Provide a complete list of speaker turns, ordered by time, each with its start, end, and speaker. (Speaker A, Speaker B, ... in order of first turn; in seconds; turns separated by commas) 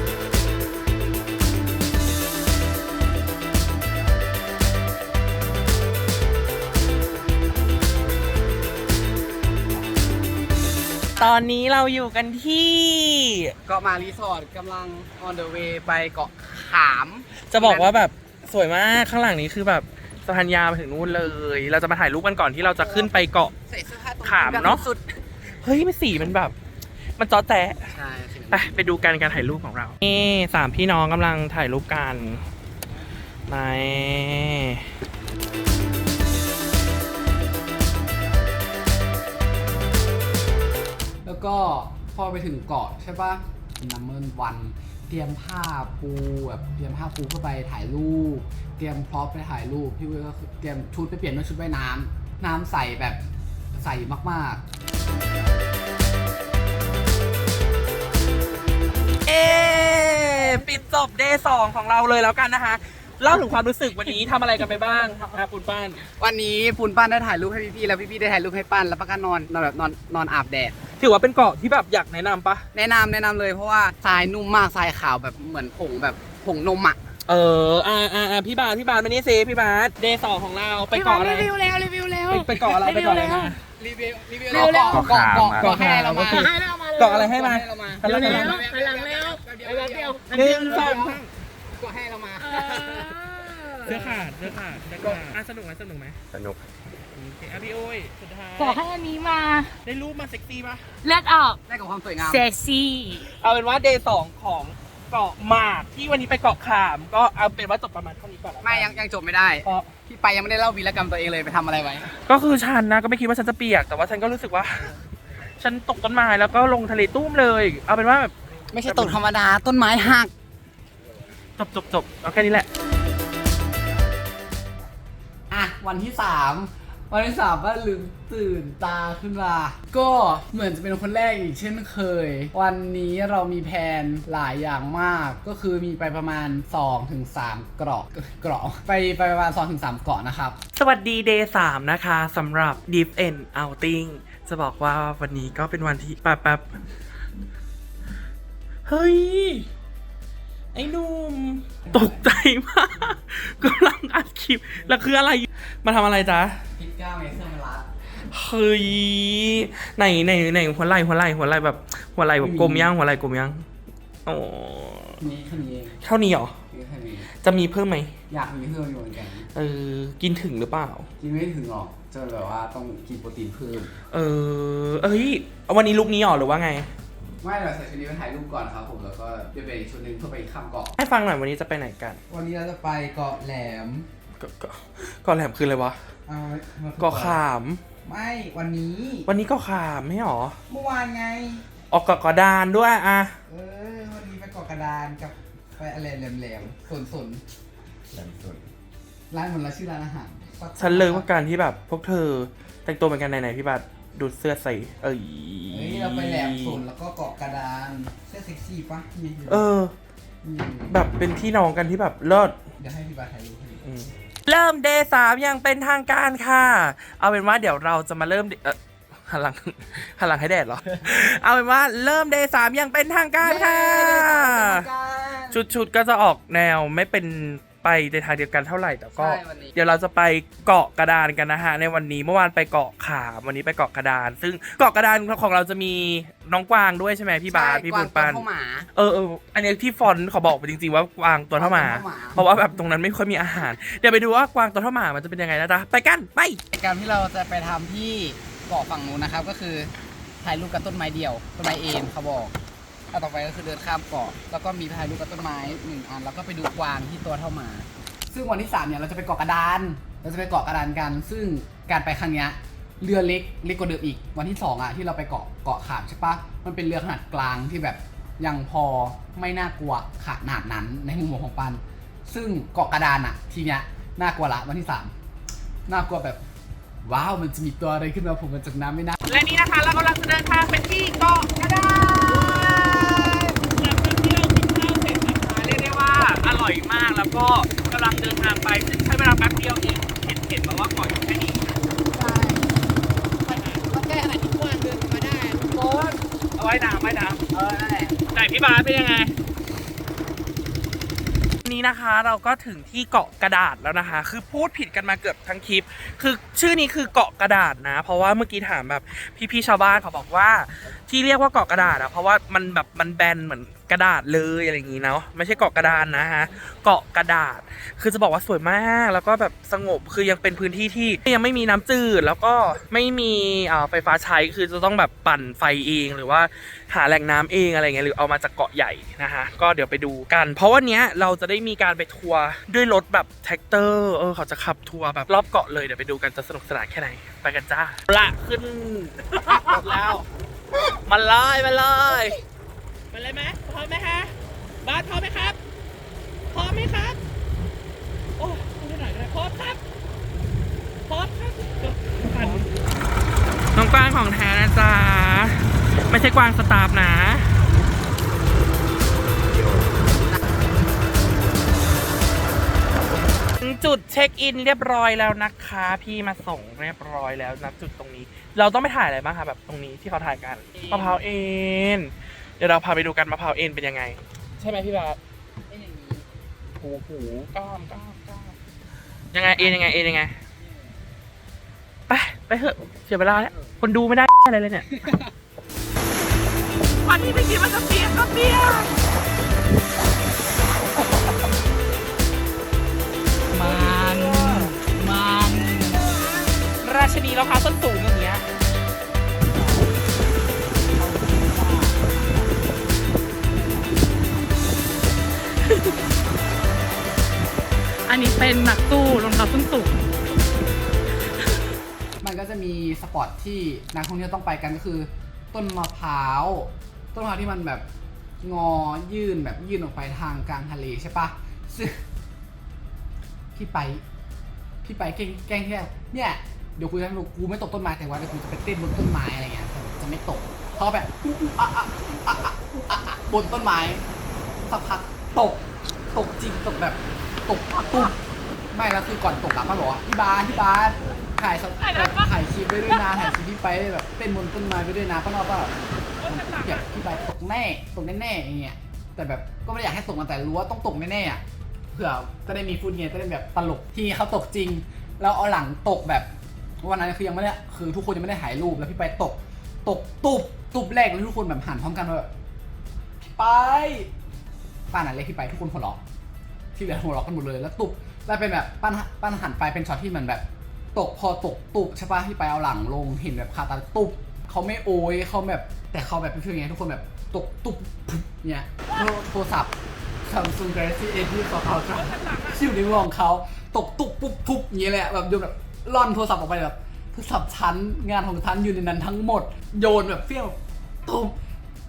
Speaker A: 11.2-13.5, Speaker B: 13.7-18.0, Speaker A: 17.5-23.5, Speaker B: 22.8-25.1, Speaker A: 24.2-24.8, Speaker A: 25.6-26.6, Speaker A: 27.2-27.9, Speaker B: 27.9-28.7, Speaker A: 28.5-32.5, Speaker A: 33.5-35.0, Speaker B: 41.2-53.2, Speaker B: 53.7-54.6, Speaker A: 59.2-66.0, Speaker B: 66.2-70.8, Speaker A: 71.0-72.7, Speaker B: 72.7-77.0, Speaker A: 77.3-81.5, Speaker C: 80.9-83.6, Speaker A: 82.3-83.6, Speaker B: 83.8-91.3, Speaker C: 84.5-85.7, Speaker A: 84.6-84.9, Speaker D: 84.9-86.5, Speaker A: 85.5-88.6, Speaker C: 86.2-87.3, Speaker C: 88.0-91.2, Speaker A: 90.3-91.2, Speaker B: 91.8-94.2, Speaker C: 92.4-94.3, Speaker A: 93.8-96.2, Speaker D: 96.3-96.6, Speaker A: 97.1-98.8, Speaker C: 98.6-99.8, Speaker A: 99.8-100.8, Speaker C: 101.0-101.6, Speaker B: 101.7-102.4, Speaker C: 102.2-103.3, Speaker A: 103.2-109.1, Speaker B: 108.6-112.1, Speaker A: 109.6-109.9, Speaker A: 112.2-114.9, Speaker A: 115.6-119.2, Speaker B: 118.7-120.3, Speaker A: 121.6-122.7, Speaker B: 125.5-140.6, Speaker A: 140.8-146.8, Speaker A: 148.9-149.7, Speaker A: 150.7-156.6, Speaker B: 151.9-152.3, Speaker B: 156.8-157.9, Speaker A: 158.3-163.7, Speaker B: 162.4-162.9, Speaker A: 164.3-165.2, Speaker B: 165.2-166.0, Speaker A: 166.0-166.6, Speaker B: 166.7-167.3, Speaker A: 167.3-168.2, Speaker B: 168.3-169.5, Speaker A: 169.5-171.1, Speaker B: 171.2-173.9, Speaker A: 174.1-176.9, Speaker B: 177.4-180.9, Speaker A: 181.0-182.2, Speaker B: 182.3-184.1, Speaker A: 184.4-186.0, Speaker B: 186.3-187.4, Speaker A: 187.0-187.8, Speaker B: 188.1-189.3, Speaker A: 189.3-190.6, Speaker B: 190.7-191.7, Speaker A: 191.9-193.3, Speaker B: 193.5-197.4, Speaker D: 198.1-198.7, Speaker B: 199.3-201.3, Speaker A: 200.8-206.8, Speaker B: 205.7-209.7, Speaker A: 209.5-209.9, Speaker B: 210.4-211.0, Speaker A: 210.9-212.6, Speaker B: 212.8-213.9, Speaker A: 213.8-224.9, Speaker B: 223.4-225.6, Speaker A: 225.5-238.4, Speaker B: 229.2-229.8, Speaker B: 237.5-238.9, Speaker A: 238.9-246.6, Speaker B: 241.6-242.5, Speaker B: 246.7-249.9, Speaker B: 250.4-252.6, Speaker B: 253.1-275.1, Speaker B: 275.9-276.4, Speaker B: 277.1-279.2, Speaker A: 279.2-291.8, Speaker B: 281.8-283.5, Speaker B: 292.1-292.7, Speaker A: 293.5-293.9, Speaker B: 293.6-296.2, Speaker A: 296.6-297.5, Speaker B: 297.5-298.2, Speaker A: 298.3-299.3, Speaker A: 301.6-340.3, Speaker A: 340.9-342.4, Speaker A: 343.1-345.6, Speaker A: 346.5-347.2, Speaker A: 348.4-349.8, Speaker A: 351.1-352.7, Speaker A: 353.7-357.6, Speaker A: 363.6-375.2, Speaker B: 370.7-371.2, Speaker B: 375.7-376.2, Speaker A: 376.8-378.4, Speaker A: 379.3-380.4, Speaker B: 379.6-379.8, Speaker B: 380.6-380.9, Speaker A: 382.1-385.1, Speaker B: 383.4-383.7, Speaker B: 384.9-385.3, Speaker A: 387.0-389.0, Speaker C: 393.5-396.1, Speaker A: 393.5-394.8, Speaker A: 396.2-398.5, Speaker B: 399.6-400.0, Speaker B: 401.0-402.1, Speaker C: 408.1-410.0, Speaker B: 412.2-417.9, Speaker B: 418.4-422.0, Speaker B: 423.6-424.0, Speaker B: 424.8-434.0, Speaker B: 434.6-438.2, Speaker B: 438.7-462.3, Speaker A: 441.9-442.3, Speaker A: 446.2-446.9, Speaker B: 463.2-464.1, Speaker B: 464.9-466.0, Speaker B: 466.8-491.4, Speaker A: 481.9-482.7